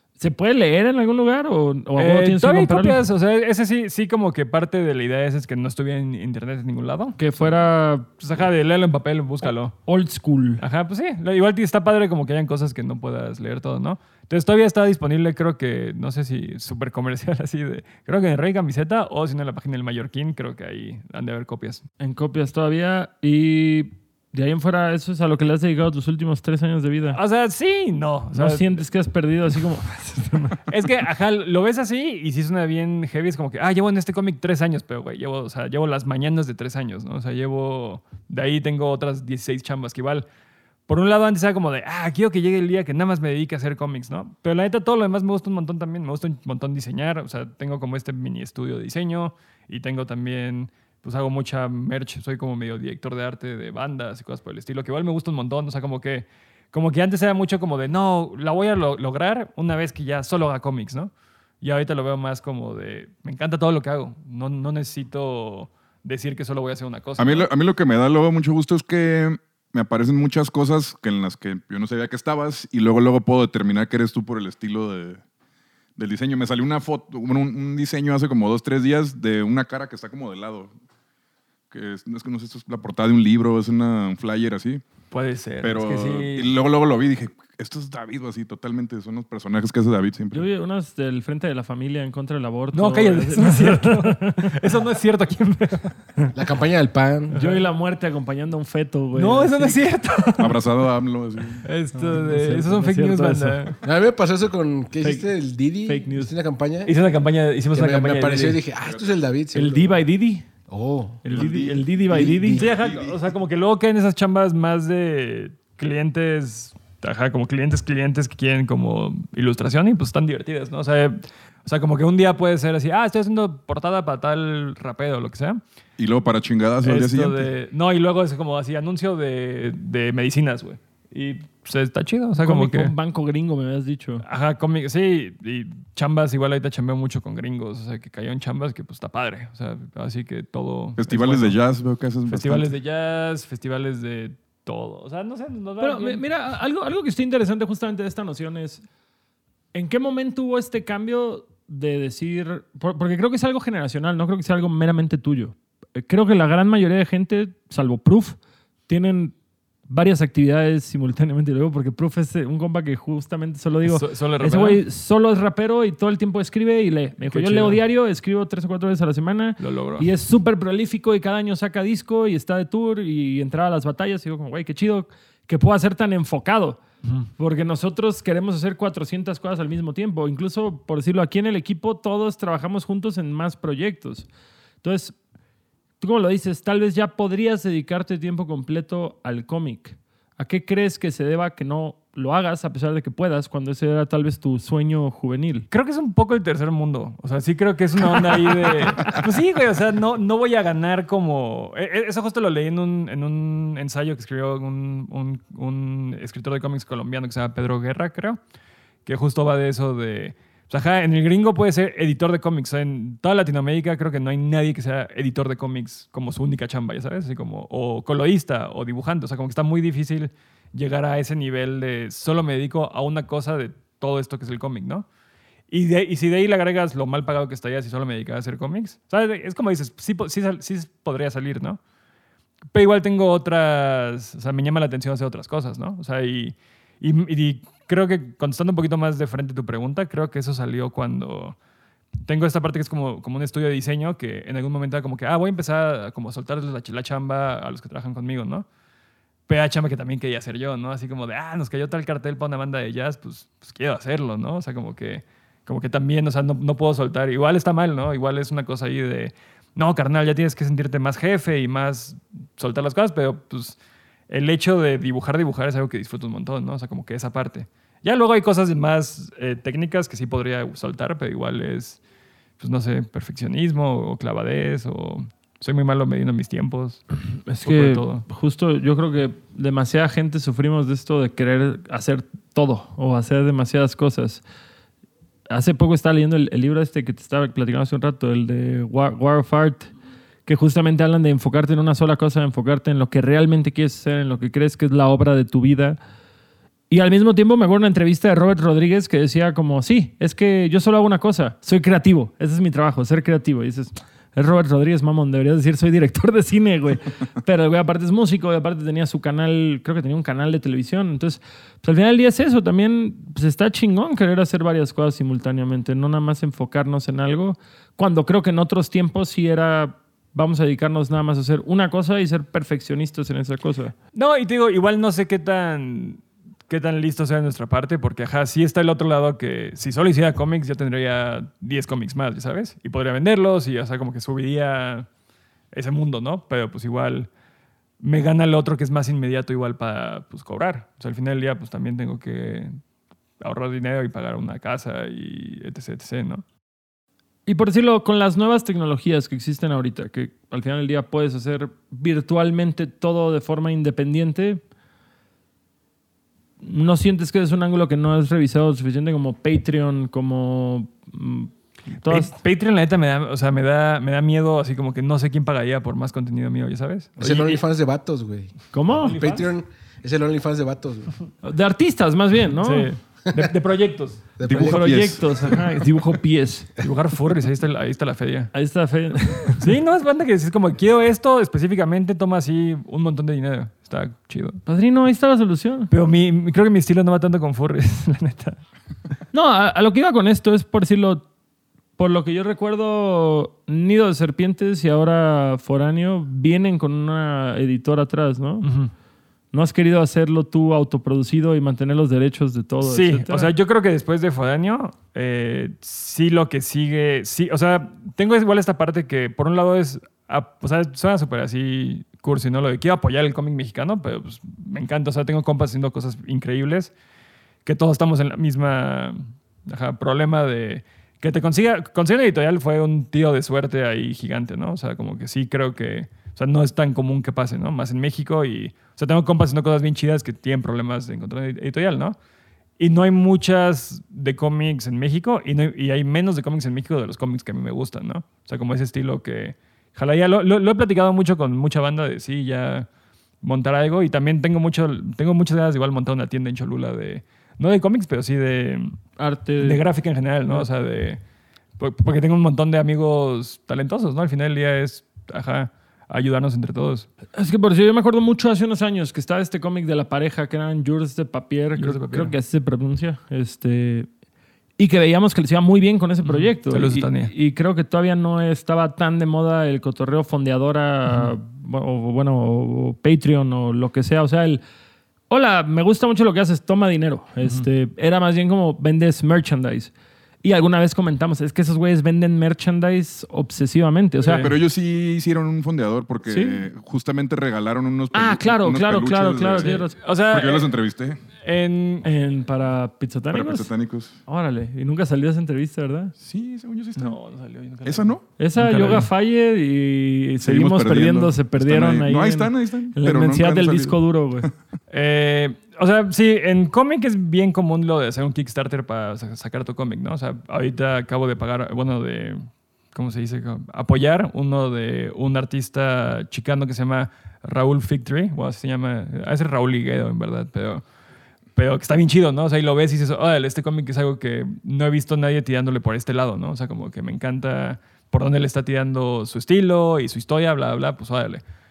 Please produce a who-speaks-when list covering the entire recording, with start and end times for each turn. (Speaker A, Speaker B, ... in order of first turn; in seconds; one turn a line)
Speaker A: 0.2-3.0
Speaker B: 1.9-7.4
Speaker A: 7.2-8.1
Speaker B: 8.2-9.7
Speaker A: 9.8-10.6
Speaker B: 10.6-21.8
Speaker A: 22.0-27.2
Speaker B: 27.1-28.8
Speaker A: 28.3-30.6
Speaker B: 30.7-40.2
Speaker B: 40.9-67.5
Speaker C: 67.2-75.2
Speaker C: 76.0-80.7
Speaker C: 81.7-84.8
Speaker B: 85.1-86.5
Speaker C: 85.6-90.5
Speaker A: 90.3-94.5
Speaker B: 92.7-96.0
Speaker D: 96.3-97.3
Speaker A: 97.3-99.8
Speaker B: 99.1-100.6
Speaker C: 100.4-101.6
Speaker B: 101.6-103.8
Speaker A: 101.9-103.8
Speaker D: 103.8-106.9
Speaker A: 105.0-105.3
Speaker A: 105.8-106.3
Speaker B: 106.8-108.6
Speaker D: 107.7-110.0
Speaker C: 108.8-109.1
Speaker A: 109.5-110.5
Speaker D: 110.7-111.2
Speaker A: 111.2-112.6
Speaker C: 111.3-111.8
Speaker D: 112.1-113.0
Speaker B: 112.5-125.6
Speaker C: 112.5-113.2
Speaker C: 126.0-127.5
Speaker B: 126.8-132.9
Speaker A: 132.4-134.2
Speaker B: 134.2-141.6
Speaker C: 141.0-142.7
Speaker B: 142.3-146.2
Speaker A: 145.8-148.8
Speaker A: 149.7-159.3
Speaker A: 159.9-176.8
Speaker B: 163.8-164.8
Speaker B: 167.2-167.8
Speaker B: 169.6-170.1
Speaker B: 177.0-177.3
Speaker A: 177.4-184.3
Speaker A: 184.8-185.2
Speaker A: 186.0-195.7
Speaker B: 195.7-208.4
Speaker B: 209.1-225.1
Speaker B: 225.7-231.8
Speaker B: 232.7-241.6
Speaker B: 242.2-248.7
Speaker B: 249.5-263.8
Speaker B: 264.3-272.0
Speaker B: 272.6-277.1
Speaker A: 277.4-284.4
Speaker B: 277.6-278.2
Speaker A: 285.5-289.9
Speaker A: 290.4-296.0
Speaker A: 296.9-323.9
Speaker B: 324.1-335.1
Speaker B: 335.7-337.3
Speaker B: 338.0-342.8
Speaker B: 343.4-346.4
Speaker A: 347.4-354.6
Speaker A: 356.6-362.3
Speaker B: 362.0-367.6
Speaker D: 367.2-371.1
Speaker A: 368.7-369.2
Speaker B: 369.0-369.5
Speaker A: 371.4-372.9
Speaker B: 372.6-374.4
Speaker D: 374.4-374.9
Speaker C: 374.4-375.9
Speaker A: 374.5-376.7
Speaker B: 376.8-378.5
Speaker A: 378.5-379.7
Speaker B: 379.6-384.6
Speaker A: 384.6-385.9
Speaker B: 385.9-388.6
Speaker A: 389.3-391.2
Speaker A: 392.0-398.7
Speaker B: 398.6-398.9
Speaker A: 399.5-403.5
Speaker B: 402.8-416.9
Speaker B: 417.6-432.1
Speaker B: 432.8-442.9
Speaker B: 443.4-449.0
Speaker A: 449.2-449.8
Speaker B: 449.6-451.2
Speaker B: 451.8-457.1
Speaker A: 457.3-464.1
Speaker B: 461.8-462.4
Speaker A: 464.8-474.6
Speaker B: 466.2-467.3
Speaker A: 475.3-484.5
Speaker B: 484.2-484.5
Speaker C: 484.3-491.2
Speaker A: 486.2-486.6
Speaker A: 488.1-489.9
Speaker B: 489.6-490.7
Speaker B: 491.4-492.1
Speaker A: 492.0-493.7
Speaker C: 493.3-494.2
Speaker A: 494.2-496.1
Speaker C: 496.2-497.2
Speaker B: 496.9-499.1
Speaker C: 497.8-498.2
Speaker A: 498.4-504.5
Speaker C: 500.4-504.5
Speaker B: 504.9-520.8
Speaker B: 521.5-531.4